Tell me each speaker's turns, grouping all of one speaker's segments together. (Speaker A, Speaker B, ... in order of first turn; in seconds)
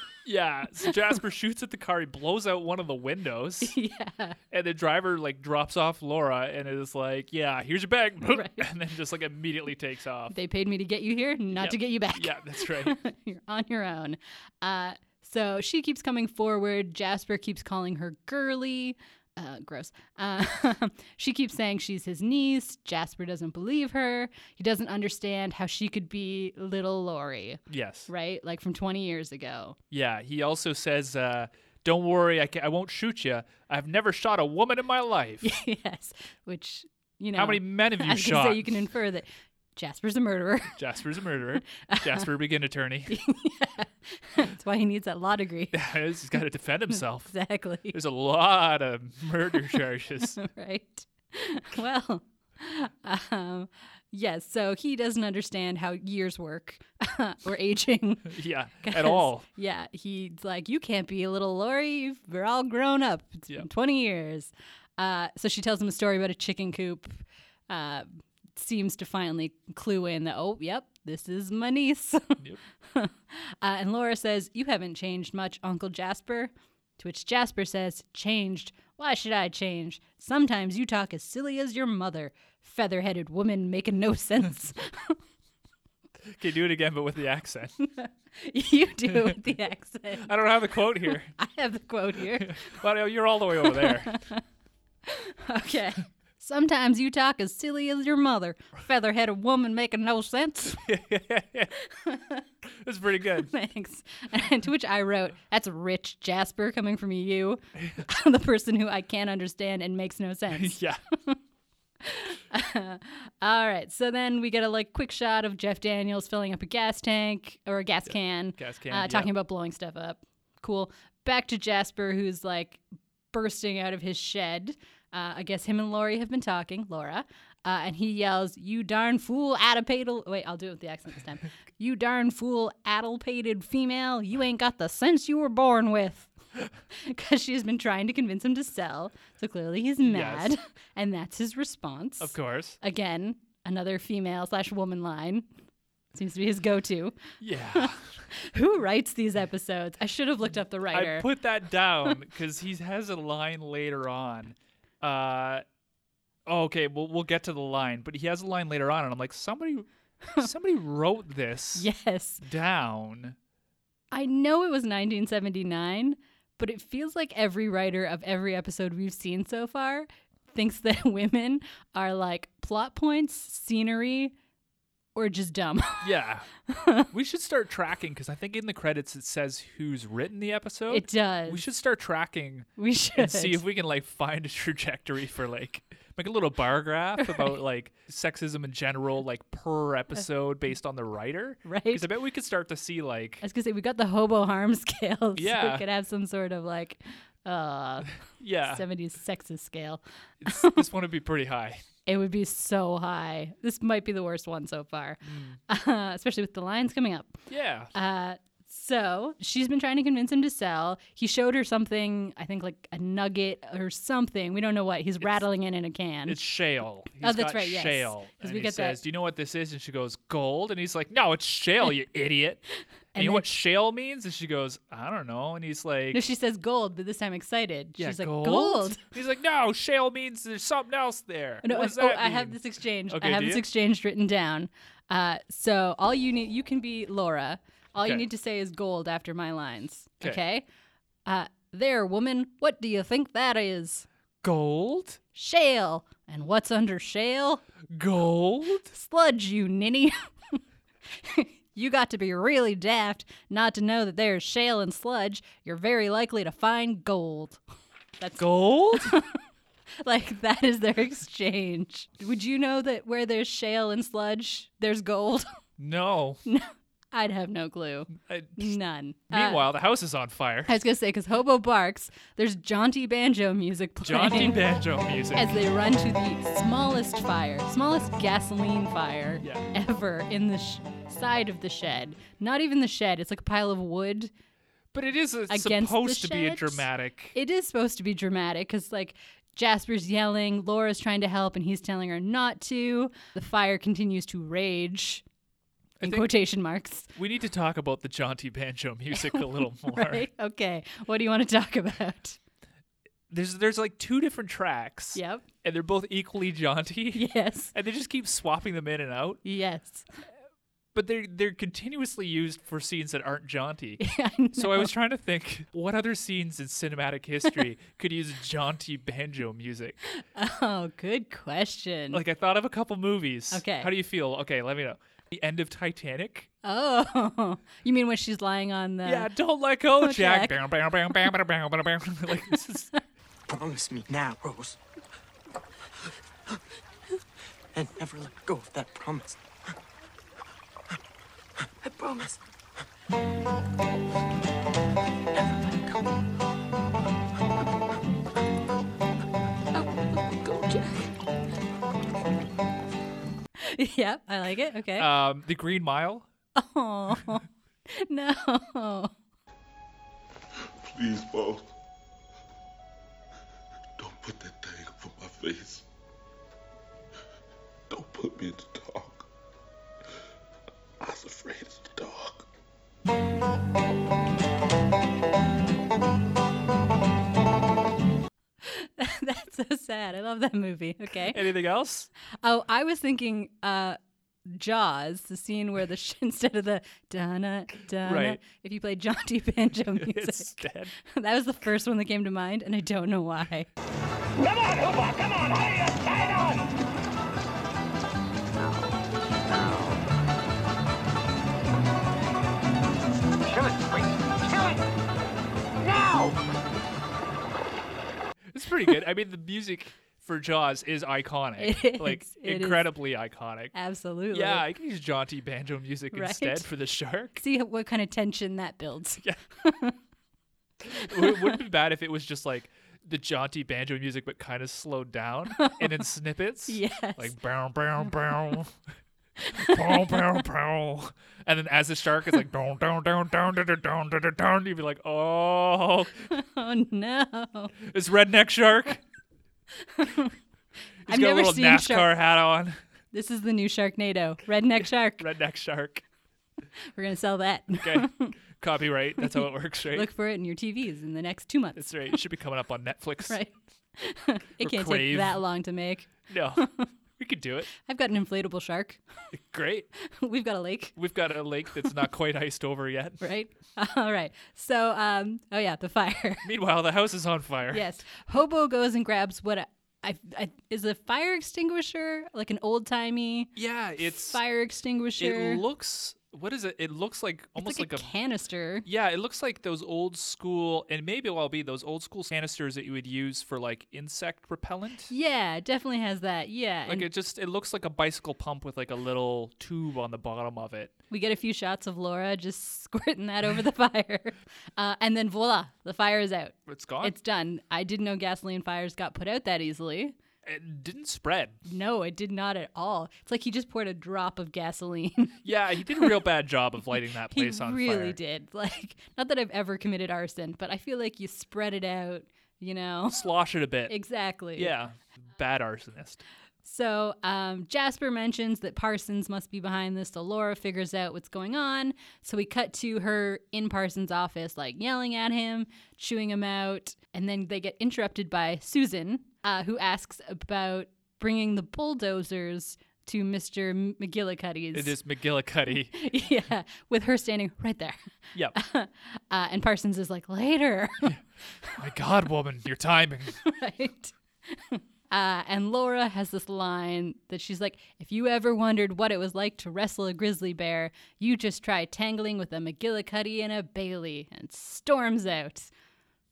Speaker A: 0.2-3.7, 4.5-10.3, 11.6-13.0, 27.7-28.1, 29.9-35.5, 37.4-38.8, 40.8-43.1, 45.7-47.3, 47.9-50.4, 58.3-59.4, 86.3-87.8, 89.1-89.4, 90.2-91.3, 92.4-94.2, 100.8-101.7, 102.8-103.5, 110.5-111.0, 118.1-119.3, 140.0-140.5, 142.2-142.8, 147.4-148.1, 150.9-155.6, 156.5-159.8, 160.4-161.9, 162.4-163.3, 176.0-176.5, 177.1-193.4, 195.3-195.8, 198.4-198.8, 200.4-201.8, 205.2-205.6, 207.5-207.9, 216.3-222.6, 223.2-226.2, 228.0-233.6, 244.4-245.2, 247.9-248.9, 258.4-259.2, 265.8-266.4, 268.1-268.7, 269.3-270.7, 274.0-275.6, 279.4-279.7, 284.9-287.4, 296.0-296.3, 297.1-300.2, 303.3-309.4, 310.9-314.0, 314.6-320.0, 322.1-326.5, 329.0-332.9, 355.0-356.2, 381.3-382.1, 388.0-388.4, 389.9-390.9, 408.5-413.7, 414.3-417.4, 421.0-428.7, 429.5-436.3, 437.9-439.0, 441.1-442.8, 445.2-446.0, 447.8-450.1, 451.8-453.4, 454.6-455.4, 456.3-456.6, 457.2-457.7, 459.3-459.9, 461.0-463.2, 466.4-468.0, 473.6-474.4, 475.2-478.1, 478.8-485.1, 486.9-490.9, 496.7-497.1, 500.4-501.6, 505.4-508.2, 513.1-513.9, 514.5-516.2, 534.7-535.9, 541.7-543.4
Speaker B: 3.6-4.4, 8.3-8.7, 10.3-29.8, 35.4-40.8, 41.8-42.3, 43.1-45.8, 47.3-48.0, 50.3-85.2, 87.8-90.3, 91.0-92.8, 93.6-94.4, 95.0-100.8, 101.8-102.4, 103.4-111.4, 112.0-136.3, 136.9-145.5, 146.1-147.2, 147.7-151.3, 161.8-162.4, 164.1-174.3, 175.1-176.1, 176.7-177.1, 180.9-181.6, 182.8-183.6, 187.2-187.5, 191.6-192.1, 193.4-198.1, 198.6-200.8, 202.1-207.4, 207.9-216.4, 217.2-219.0, 223.1-223.5, 226.1-229.0, 231.6-240.7, 241.2-244.1, 245.3-247.6, 248.9-250.6, 251.1-257.6, 258.2-259.4, 260.0-265.6, 266.4-269.6, 270.7-274.6, 275.3-284.3, 285.5-295.2, 296.0-297.1, 299.1-302.4, 305.1-305.4, 307.1-307.7, 309.4-310.1, 314.0-314.9, 320.1-322.2, 323.5-323.9, 326.6-329.3, 330.0-330.5, 349.7-351.1, 353.6-355.1, 356.6-359.1, 378.6-381.4, 382.4-393.7, 411.6-412.9, 413.7-414.6, 416.1-416.7, 417.4-420.0, 420.9-421.6, 425.6-425.9, 426.7-427.3, 429.4-430.2, 436.3-437.8, 439.8-440.3, 441.1-442.2, 443.1-445.2, 446.9-448.3, 449.2-451.9, 453.3-456.9, 457.7-459.0, 460.0-460.9, 463.2-466.4, 467.7-473.5, 474.3-475.6, 477.6-478.9, 485.1-487.1, 491.1-500.1, 501.6-505.4, 507.3-513.2, 513.9-514.7, 516.6-535.0, 535.9-538.0, 538.5-541.1, 543.4-555.7
Speaker C: 333.5-334.8, 337.7-339.7, 341.6-342.5, 345.4-346.1
Speaker D: 360.8-361.7, 364.0-365.9, 367.9-369.3, 371.0-372.5
Speaker E: 394.4-396.6, 399.5-399.8, 403.5-404.8, 405.8-406.4